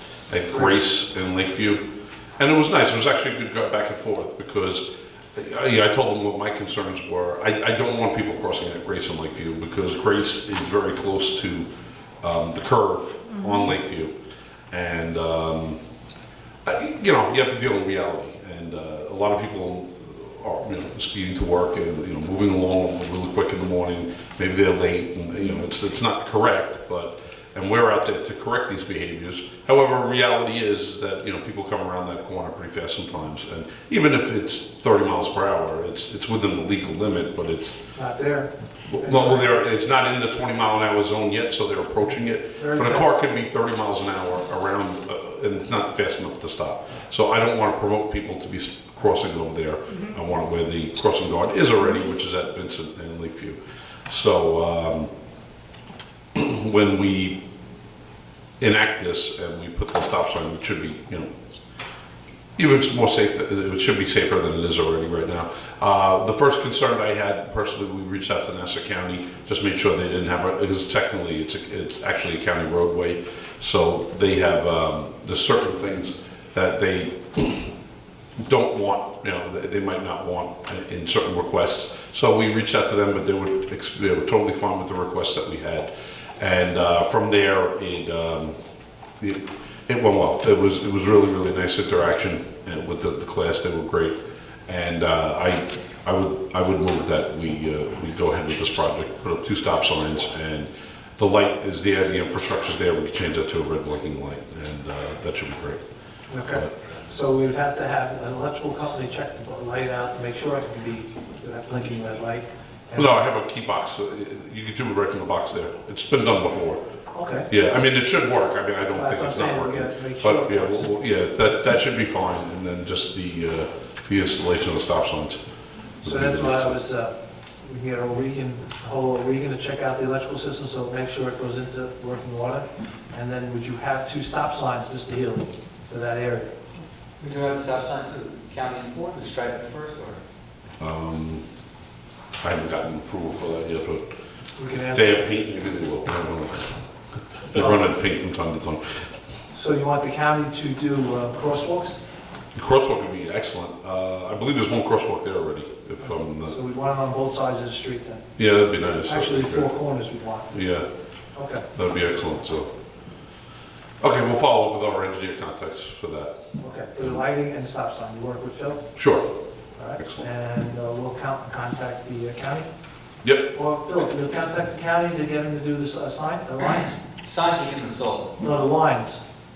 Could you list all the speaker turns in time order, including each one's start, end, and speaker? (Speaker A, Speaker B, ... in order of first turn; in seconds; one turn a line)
Speaker A: 0.3-1.8
Speaker B: 0.5-0.9
Speaker A: 2.4-11.7
Speaker A: 12.2-14.1
Speaker A: 14.7-15.8
Speaker A: 16.6-37.8
Speaker B: 38.0-39.6
Speaker A: 38.9-55.1
Speaker B: 42.6-43.1
Speaker A: 56.4-57.4
Speaker A: 58.6-61.3
Speaker A: 62.6-77.7
Speaker A: 78.4-88.6
Speaker A: 89.2-105.8
Speaker B: 106.3-113.1
Speaker A: 113.0-116.8
Speaker B: 117.1-117.5
Speaker A: 117.5-125.4
Speaker B: 118.9-120.9
Speaker A: 126.0-126.8
Speaker B: 126.0-136.5
Speaker C: 137.2-140.2
Speaker A: 140.8-141.4
Speaker A: 142.4-144.1
Speaker B: 144.6-145.3
Speaker A: 144.9-149.1
Speaker B: 147.5-147.9
Speaker B: 149.5-152.0
Speaker A: 152.6-156.6
Speaker B: 156.0-158.2
Speaker A: 158.4-159.7
Speaker B: 159.1-160.6
Speaker A: 160.5-160.9
Speaker B: 161.3-161.7
Speaker A: 161.7-162.7
Speaker A: 164.0-166.3
Speaker B: 166.6-168.8
Speaker A: 169.0-169.3
Speaker B: 169.8-172.7
Speaker B: 173.5-177.0
Speaker C: 176.6-178.3
Speaker B: 178.4-179.2